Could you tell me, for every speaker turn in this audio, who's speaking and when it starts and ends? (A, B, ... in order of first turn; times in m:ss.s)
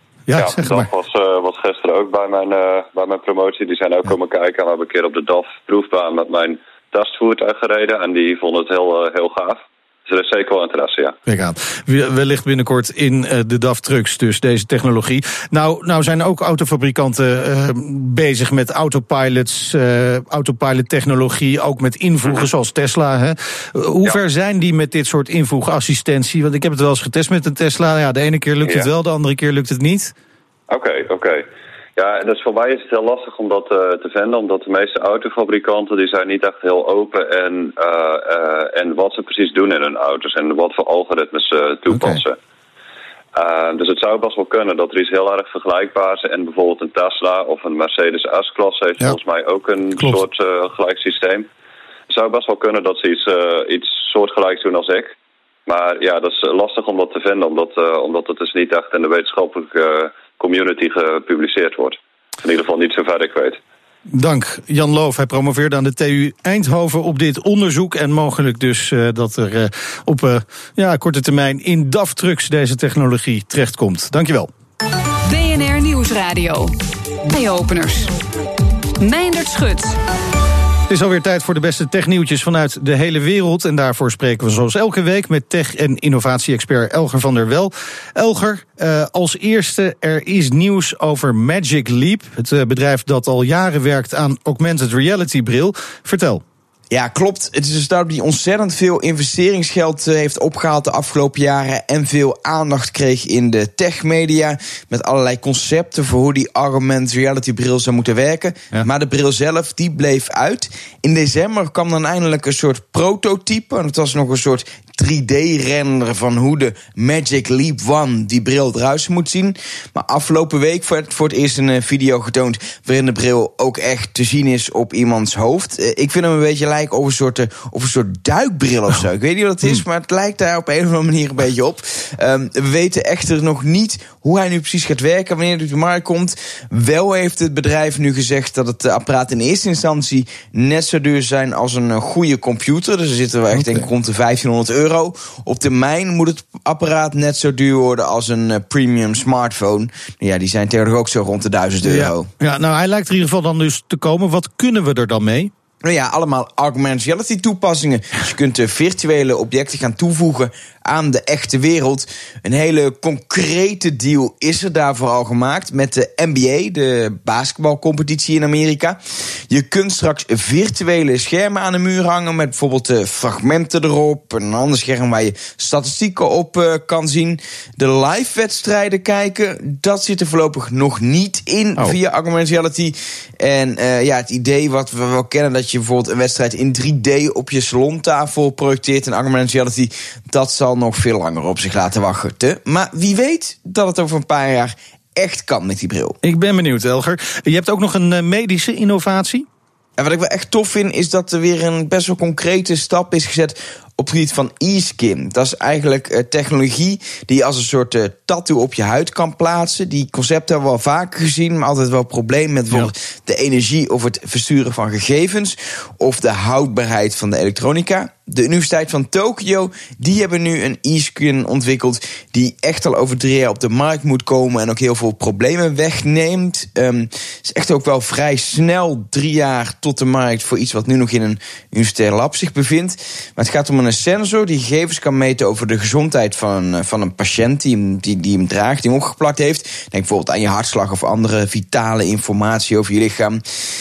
0:00.3-0:00.9 A
0:00.3-0:11.1 B
0:11.2-0:30.1 A
0:30.7-0:42.4 B
0:41.9-0:42.2 A
0:43.3-0:51.5 B
0:52.1-0:55.1 B
0:55.7-1:03.6 B
1:04.1-1:14.5 A
1:15.2-1:16.7 C
1:17.2-1:18.1 C
1:19.0-1:20.0 C
1:20.9-1:36.4 A
1:36.9-2:32.3 D
2:23.5-2:23.9 A
2:31.8-2:35.5 A
2:35.8-3:16.2 D
3:16.2-3:19.5 A
3:20.0-4:03.4 D